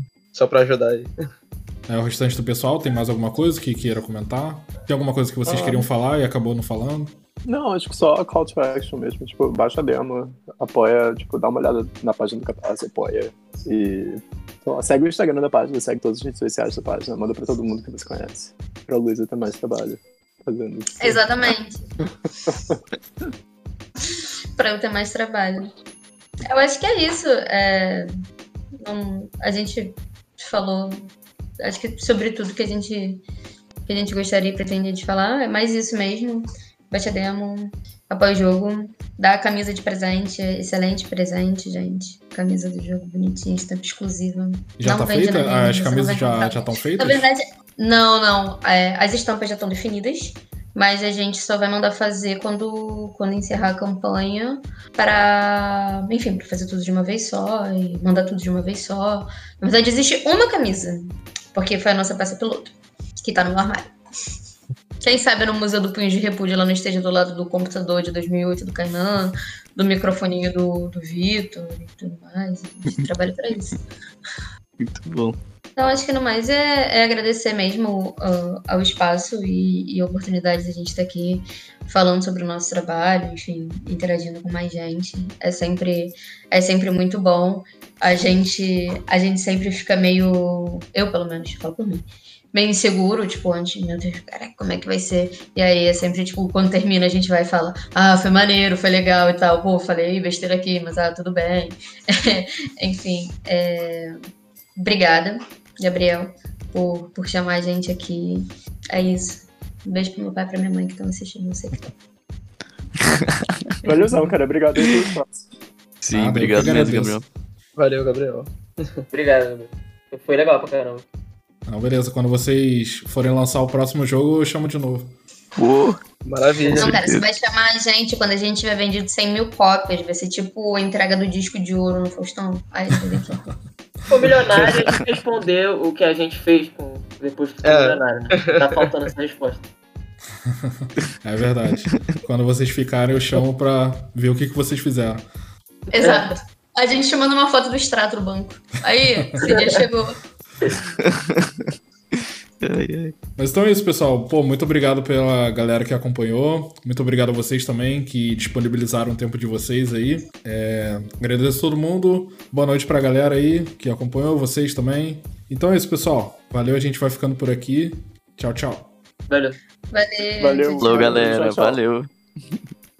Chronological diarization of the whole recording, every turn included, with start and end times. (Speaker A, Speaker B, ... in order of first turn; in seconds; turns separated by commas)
Speaker A: 0.3-1.1, Speaker B: 1.9-7.2, Speaker C: 5.4-5.9, Speaker C: 7.5-21.2, Speaker D: 21.0-21.9, Speaker C: 22.5-22.8, Speaker D: 24.6-25.7, Speaker D: 26.5-28.1, Speaker D: 28.8-33.2, Speaker D: 33.9-63.9, Speaker B: 44.8-47.2, Speaker D: 65.0-73.8, Speaker E: 74.8-75.4, Speaker D: 75.8-104.2, Speaker D: 104.8-111.9, Speaker E: 113.0-113.9, Speaker C: 113.8-115.5, Speaker E: 116.0-117.2, Speaker B: 116.1-117.2, Speaker A: 117.8-119.0, Speaker F: 119.1-121.0, Speaker B: 121.7-125.1, Speaker E: 125.6-126.0, Speaker A: 126.2-126.9, Speaker E: 126.5-127.3, Speaker D: 126.7-133.4, Speaker F: 134.1-139.7, Speaker A: 137.6-138.8, Speaker B: 140.4-145.2, Speaker E: 141.8-142.2, Speaker D: 145.9-150.2, Speaker F: 145.9-146.3, Speaker F: 149.4-149.8, Speaker E: 150.9-153.2, Speaker B: 153.4-168.9, Speaker F: 169.3-169.6, Speaker D: 169.9-171.3, Speaker C: 170.4-171.8, Speaker E: 170.8-172.6